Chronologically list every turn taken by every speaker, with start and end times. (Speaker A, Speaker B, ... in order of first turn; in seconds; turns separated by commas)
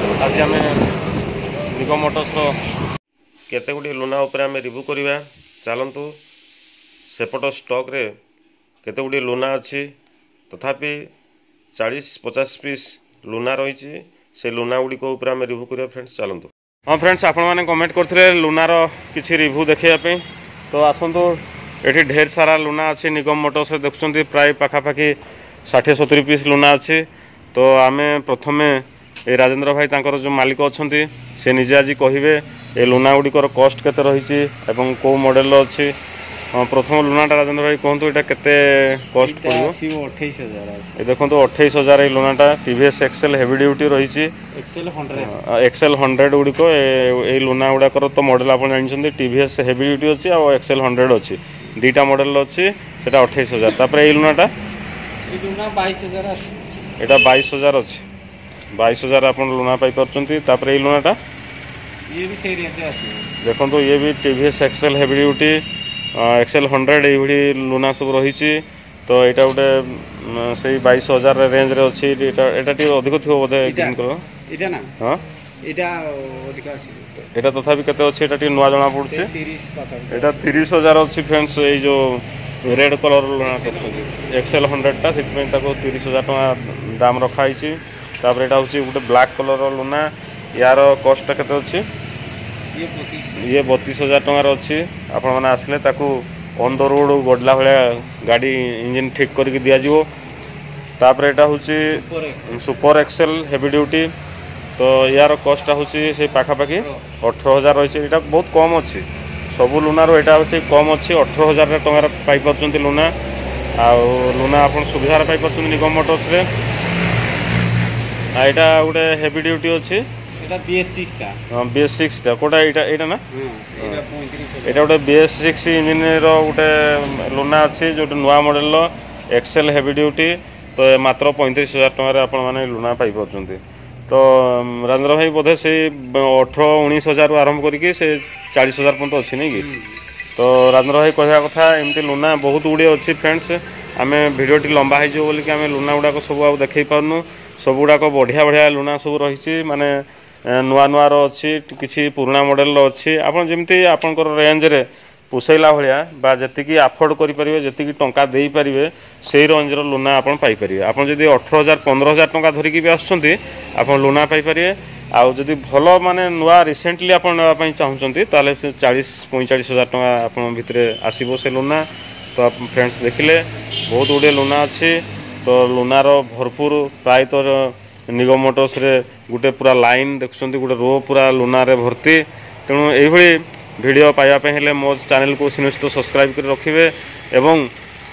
Speaker A: 0.2-0.9, Speaker A: 1.7-2.6, Speaker A: 3.5-6.2, Speaker A: 7.1-8.1, Speaker A: 8.8-9.9, Speaker A: 10.5-11.1, Speaker A: 11.7-35.9, Speaker A: 36.5-39.8, Speaker B: 39.2-41.0, Speaker A: 41.0-44.3, Speaker B: 44.5-45.3, Speaker A: 45.1-54.5, Speaker B: 55.3-56.6, Speaker A: 57.0-58.0, Speaker A: 58.8-61.2, Speaker B: 62.1-63.3, Speaker A: 63.4-65.6, Speaker A: 66.2-74.2, Speaker B: 73.6-74.0, Speaker B: 74.5-74.9, Speaker B: 75.6-77.2, Speaker A: 77.2-79.3, Speaker B: 79.0-80.5, Speaker A: 80.1-91.8, Speaker B: 83.4-84.3, Speaker B: 92.7-93.7, Speaker A: 93.4-100.1, Speaker A: 101.0-104.1, Speaker B: 101.9-102.6, Speaker A: 104.8-113.1, Speaker B: 106.7-107.0, Speaker A: 113.8-116.5, Speaker A: 118.4-120.0, Speaker B: 120.4-121.4, Speaker A: 121.5-123.2, Speaker B: 123.3-124.9, Speaker A: 124.7-139.7, Speaker B: 139.6-140.0, Speaker A: 140.4-149.9, Speaker A: 150.5-187.7